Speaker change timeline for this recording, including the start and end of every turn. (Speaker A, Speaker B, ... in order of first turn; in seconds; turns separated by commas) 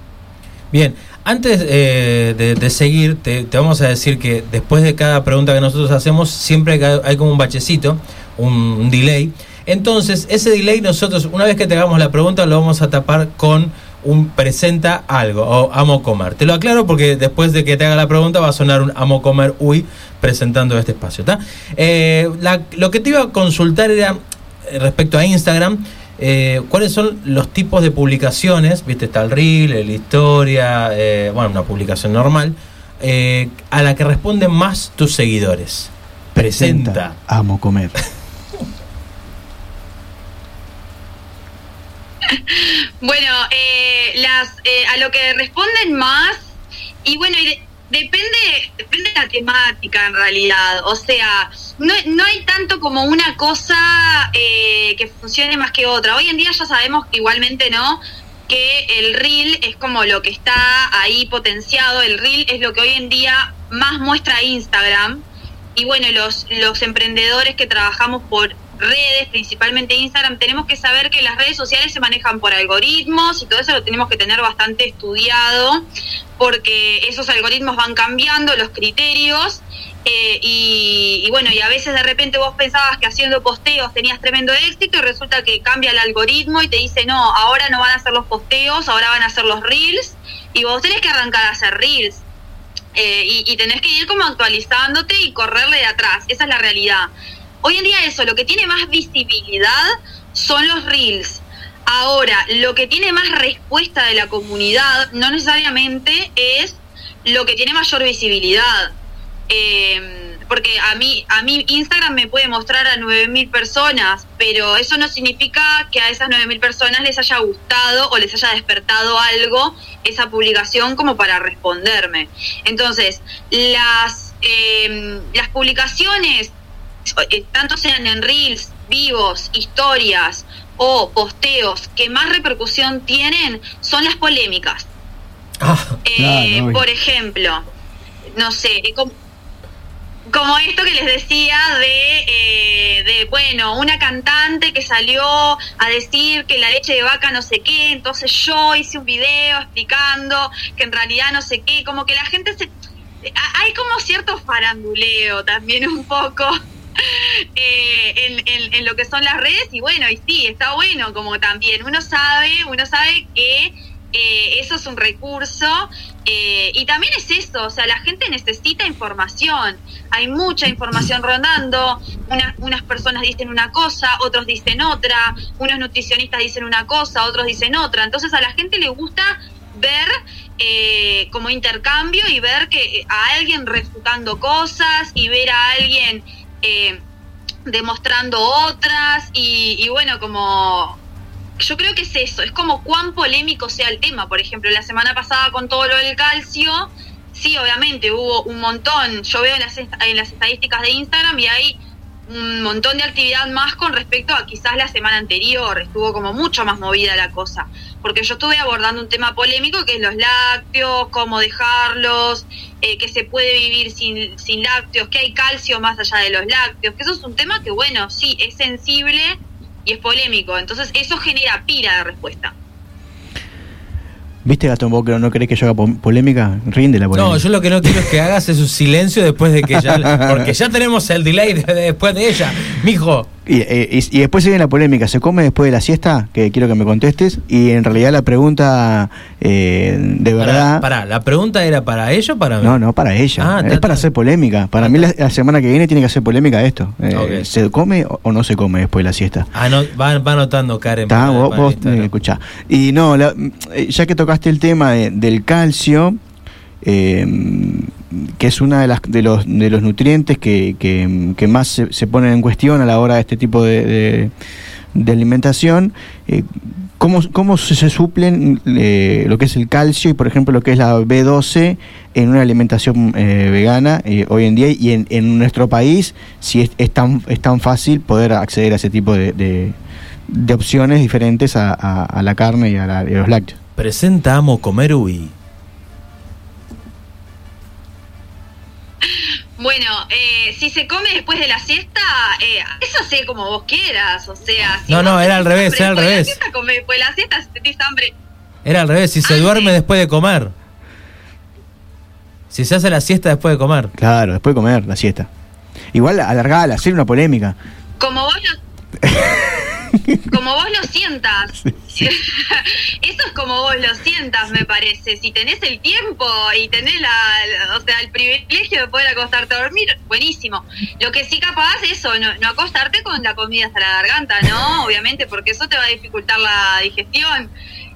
Speaker A: 0.7-37.1, Speaker B: 36.4-37.9, Speaker C: 42.5-65.2, Speaker C: 65.8-75.8, Speaker C: 76.4-92.2, Speaker C: 93.0-97.1, Speaker C: 97.6-108.9, Speaker C: 109.5-126.5, Speaker C: 127.2-134.9, Speaker A: 135.6-136.0, Speaker C: 136.1-137.7, Speaker B: 136.2-136.8, Speaker C: 138.3-139.1, Speaker C: 140.3-152.7, Speaker C: 153.2-187.0, Speaker C: 187.7-191.0, Speaker C: 191.6-222.5, Speaker B: 224.4-228.1, Speaker A: 227.2-233.3, Speaker B: 229.7-230.5, Speaker B: 233.5-240.8, Speaker A: 240.4-242.8, Speaker B: 242.6-249.5, Speaker A: 243.4-244.1, Speaker A: 244.8-245.1, Speaker A: 247.1-247.5, Speaker A: 249.5-252.1, Speaker B: 251.1-256.2, Speaker B: 256.8-264.3, Speaker B: 264.9-279.8, Speaker B: 280.3-283.6, Speaker A: 283.8-285.3, Speaker C: 289.6-298.1, Speaker A: 294.9-296.4, Speaker A: 298.7-300.5, Speaker C: 299.2-299.8, Speaker A: 302.5-303.9, Speaker B: 304.0-305.3, Speaker B: 305.9-307.6, Speaker C: 308.0-308.6, Speaker B: 309.0-309.4, Speaker C: 310.3-327.5, Speaker B: 311.6-312.1